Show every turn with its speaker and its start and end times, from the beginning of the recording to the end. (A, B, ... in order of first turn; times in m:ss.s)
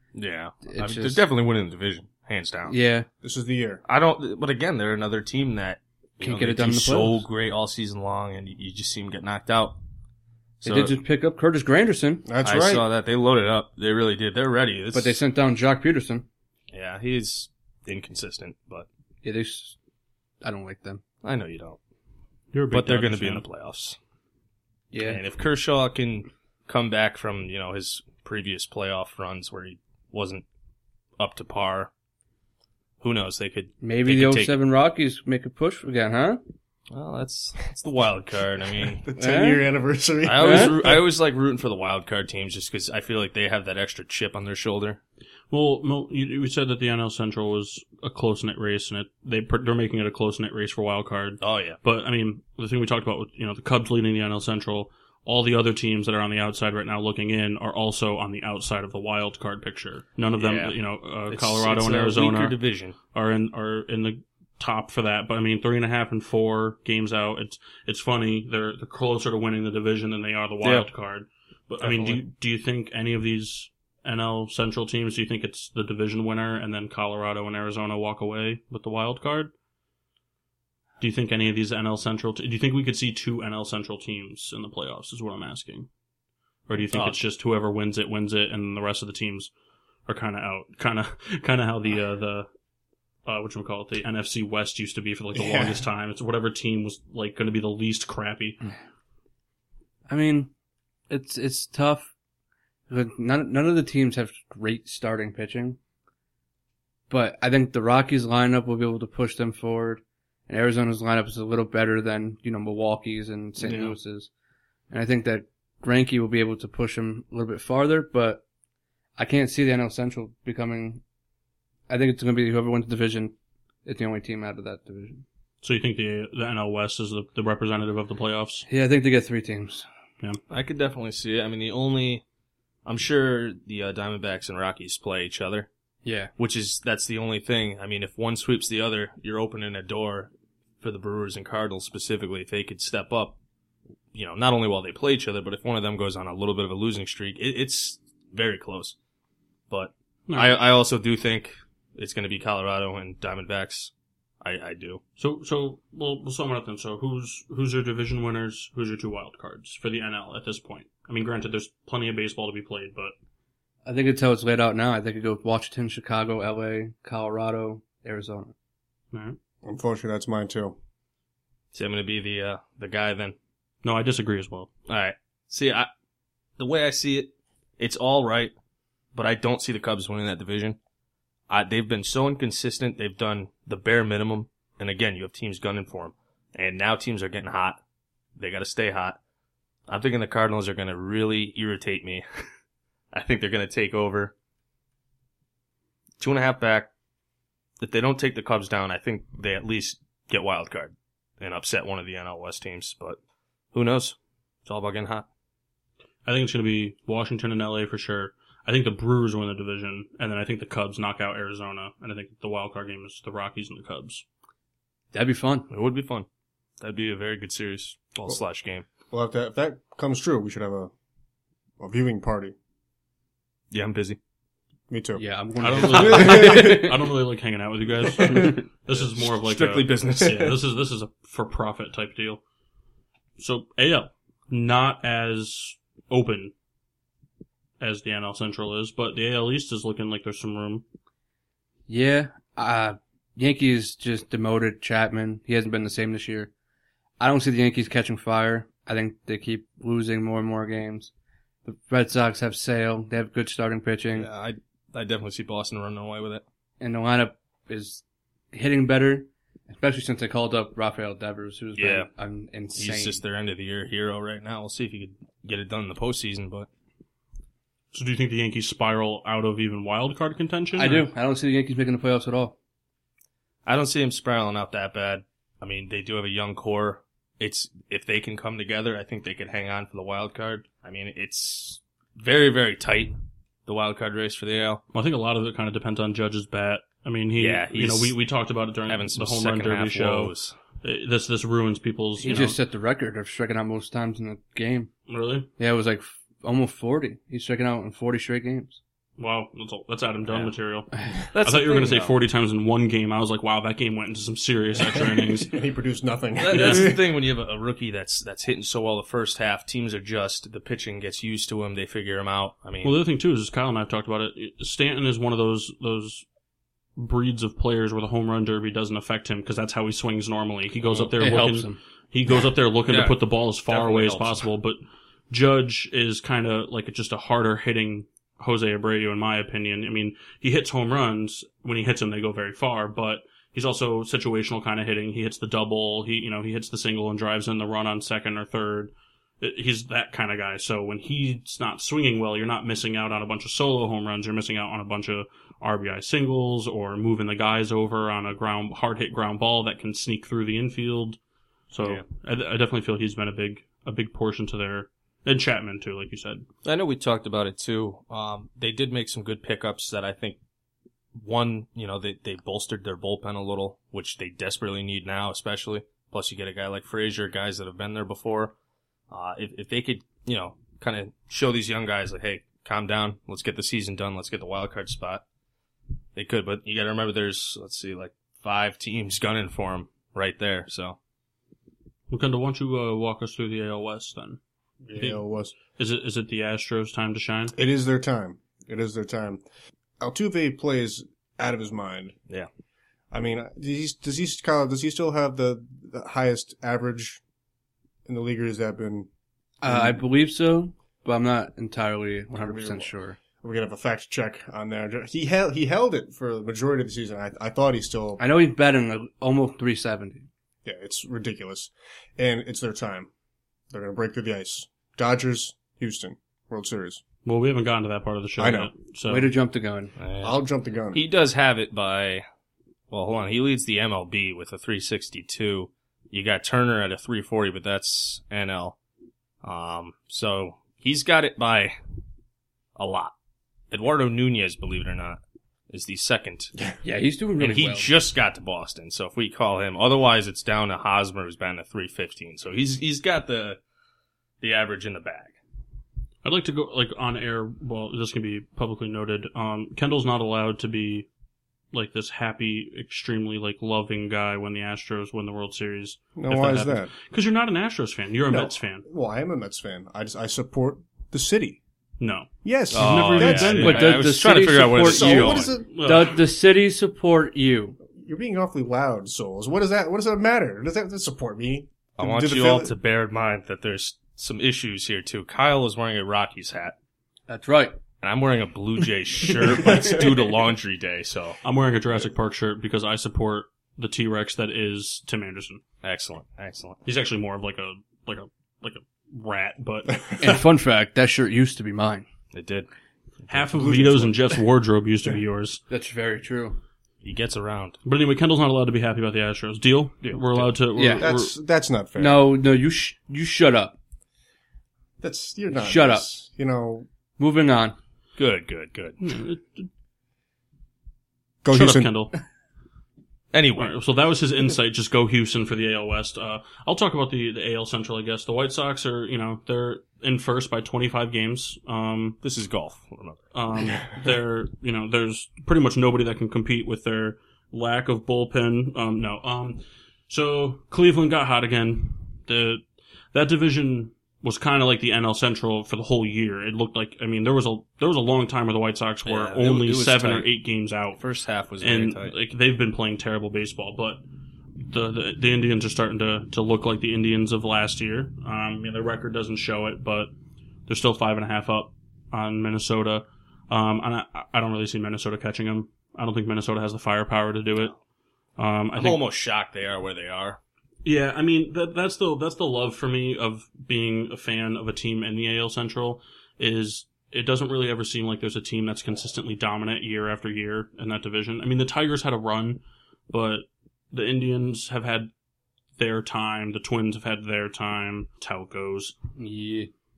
0:00.1-0:02.8 A
0:00.7-0:01.2 B
0:02.7-0:03.1 B
0:03.2-0:03.8 C
0:03.8-0:09.8 A
0:06.2-0:07.2 B
0:10.6-0:11.0 A
0:10.6-0:12.3 B
0:12.3-0:12.9 C
0:12.4-0:15.2 A
0:14.9-0:16.3 B
0:16.7-0:18.9 A
0:19.2-0:19.8 B
0:20.4-0:21.0 B
0:21.2-0:21.8 A
0:22.5-0:23.4 D
0:22.7-0:24.0 A
0:24.9-0:25.2 B
0:25.0-0:30.4 A
0:31.2-0:31.9 A
0:33.0-0:34.6 A
0:33.8-0:36.4 B
0:36.9-0:39.0 A
0:39.0-0:41.0 C
0:39.1-0:39.7 B
0:40.2-0:45.0 A
0:40.4-0:40.8 B
0:45.5-1:02.6 D
0:51.4-0:51.8 A
1:00.4-1:00.8 A
1:01.3-1:03.0 A
1:03.1-1:19.5 D
1:10.6-1:10.9 A
1:11.8-1:12.2 A
1:21.0-1:25.9 D
1:26.7-1:29.5 D
1:26.9-1:27.2 A
1:30.1-1:32.5 D
1:33.3-1:38.6 D
1:35.3-1:35.8 C
1:40.1-1:40.5 B
1:41.1-1:42.1 B
1:42.9-1:45.8 B
1:47.1-1:54.3 B
1:53.6-1:54.0 A
1:54.9-1:58.4 B
1:59.2-2:01.0 B
2:01.9-2:03.3 B
2:03.8-2:05.2 B
2:05.6-2:08.7 D
2:08.7-2:09.9 B
2:10.5-2:12.2 A
2:12.8-2:15.7 A
2:16.0-2:16.3 B
2:16.4-2:23.4 A
2:24.1-2:29.0 A
2:29.7-2:35.0 A
2:30.3-2:30.6 D
2:35.2-2:43.1 D
2:43.8-2:48.5 B
2:49.1-2:49.4 D
2:49.6-2:50.8 C
2:51.7-2:53.4 A
2:53.8-2:54.7 D
2:54.9-2:55.9 A
2:56.6-2:58.5 A
2:59.2-3:00.8 A
3:01.5-3:07.8 A
3:08.4-3:09.2 A
3:09.9-3:12.2 A
3:13.1-3:14.3 A
3:16.2-3:16.9 A
3:17.8-3:23.2 A
3:23.7-3:25.3 A
3:26.3-3:34.2 D
3:35.1-3:35.7 B
3:35.7-3:36.3 A
3:36.8-3:38.9 A
3:39.1-3:40.9 C
3:41.8-3:42.6 C
3:43.7-3:44.2 A
3:44.9-3:45.2 C
3:45.2-3:47.1 B
3:45.6-3:52.4 D
3:45.8-3:46.8 C
3:48.4-3:50.6 A
3:53.4-3:56.5 D
3:57.8-4:00.8 D
4:01.9-4:06.5 B
4:07.2-4:11.1 B
4:11.6-4:14.3 B
4:14.1-4:16.4 A
4:16.8-4:18.0 B
4:18.5-4:23.2 B
4:21.8-4:22.1 A
4:22.8-4:26.7 A
4:27.9-4:31.1 D
4:30.8-4:32.6 B
4:33.6-4:44.8 A
4:44.9-4:52.6 D
4:47.4-4:48.2 A
4:48.9-4:50.6 A
4:52.2-4:54.9 B
4:55.1-4:55.5 D
4:55.6-4:58.8 B
4:59.2-5:05.5 D
5:00.3-5:00.5 A
5:01.3-5:02.2 A
5:05.0-5:07.0 C
5:06.4-5:13.0 A
5:06.5-5:06.9 D
5:12.8-5:16.2 D
5:17.0-5:51.2 D
5:21.2-5:21.8 B
5:22.9-5:24.4 A
5:51.7-5:56.4 D
5:56.6-6:00.4 A
6:01.2-6:08.5 A
6:09.1-6:15.2 A
6:16.2-6:21.0 A
6:22.1-6:24.4 D
6:24.8-6:25.5 C
6:25.0-6:27.6 D
6:27.5-6:29.4 C
6:30.0-6:32.2 C
6:33.1-6:37.2 C
6:38.1-6:39.1 C
6:39.6-6:43.2 B
6:39.6-6:40.0 C
6:42.4-6:48.2 C
6:48.2-6:50.3 B
6:50.6-6:53.1 C
6:53.7-6:57.0 C
6:57.2-6:59.3 D
6:58.4-6:58.7 C
6:59.1-6:59.9 B
7:00.0-7:00.4 A
7:00.2-7:01.0 C
7:00.9-7:02.2 A
7:02.9-7:08.8 A
7:09.4-7:11.8 A
7:12.8-7:13.1 A
7:13.7-7:16.5 A
7:16.8-7:17.9 B
7:17.4-7:23.6 A
7:24.4-7:25.4 A
7:26.2-7:31.1 D
7:31.7-7:38.9 D
7:36.2-7:36.9 C
7:38.3-7:41.6 C
7:42.0-7:44.0 D
7:42.4-7:43.9 C
7:42.7-7:45.6 A
7:43.6-7:47.8 B
7:44.8-7:45.7 C
7:45.7-7:46.2 D
7:47.8-7:52.7 C
7:52.0-7:56.8 A
7:57.3-7:57.8 B
7:58.0-8:01.4 A
7:59.4-7:59.9 B
7:59.7-8:00.0 C
8:01.4-8:05.6 D
8:05.8-8:06.8 A
8:06.8-8:10.2 D
8:09.9-8:10.4 C
8:10.2-8:12.1 B
8:12.3-8:12.7 A
8:13.2-8:13.5 A
8:13.3-8:15.6 D
8:13.5-8:14.4 C
8:15.7-8:16.6 B
8:17.0-8:17.8 A
8:17.8-8:21.4 D
8:20.0-8:20.5 A
8:20.8-8:21.1 B
8:21.0-8:22.2 C
8:22.0-8:23.8 B
8:25.0-8:26.9 C
8:25.5-8:26.1 B
8:27.2-8:27.8 B
8:28.2-8:29.0 A
8:29.0-8:29.7 D
8:31.4-8:31.9 C
8:31.5-8:32.2 D
8:33.3-8:33.8 A
8:33.6-8:42.2 D
8:42.2-8:43.2 A
8:43.3-8:52.6 D
8:53.1-9:01.0 D
8:59.1-9:00.3 A
9:01.0-9:02.2 A
9:01.6-9:04.0 D
9:04.6-9:10.1 D
9:10.7-9:17.8 D
9:18.4-9:19.0 D
9:18.8-9:20.4 A
9:20.8-9:35.1 D
9:35.8-9:39.0 D
9:39.2-9:39.7 B